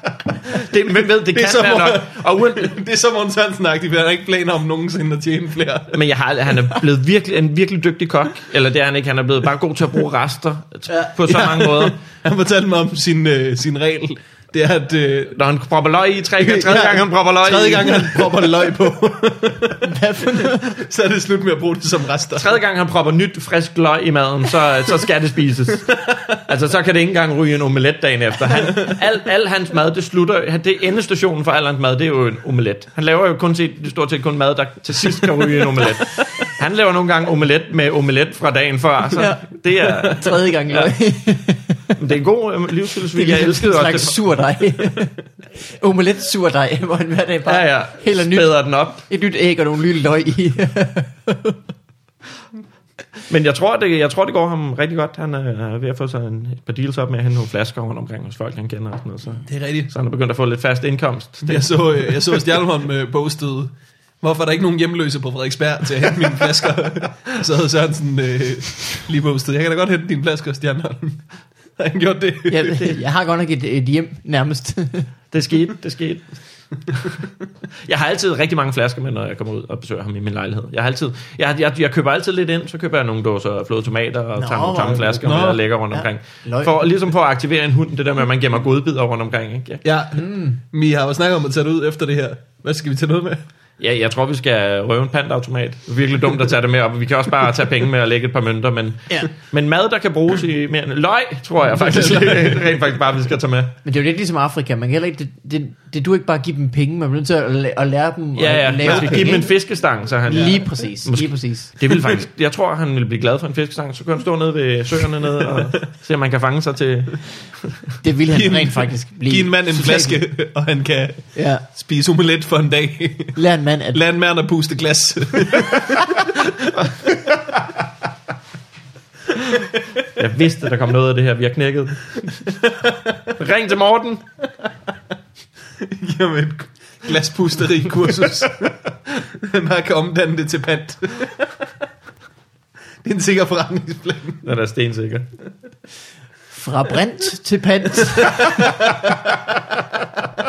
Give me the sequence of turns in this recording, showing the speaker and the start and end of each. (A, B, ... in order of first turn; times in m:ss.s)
0:00.5-0:02.8 A
0:01.3-0:06.0 B
0:05.9-0:12.0 A
0:11.3-0:15.4 B
0:15.3-0:18.4 A
0:16.4-0:22.6 B
0:19.8-0:20.7 C
0:22.4-0:40.9 A
0:39.2-0:42.0 C
0:42.0-0:44.2 A
0:43.1-0:51.6 C
0:47.5-0:49.0 A
0:53.3-1:02.2 A
0:59.5-0:59.9 B
1:01.4-1:11.2 B
1:11.8-1:12.9 B
1:12.5-1:15.1 C
1:15.3-1:16.4 A
1:17.8-1:29.8 A
1:24.4-1:26.8 C
1:25.1-1:25.6 B
1:29.8-1:33.4 B
1:30.1-1:30.6 C
1:33.8-1:43.8 A
1:41.8-1:42.6 B
1:43.8-1:49.5 C
1:48.4-1:57.8 A
1:48.8-1:49.2 B
1:50.3-1:51.8 C
1:58.0-2:00.2 C
1:58.3-2:03.4 B
2:01.4-2:01.6 C
2:03.4-2:04.0 C
2:03.9-2:06.7 B
2:10.2-2:12.3 A
2:12.7-2:13.1 B
2:13.4-2:14.2 A
2:15.8-2:21.6 B
2:23.0-2:24.4 B
2:24.4-2:25.3 A
2:26.5-2:28.6 C
2:28.4-2:29.1 B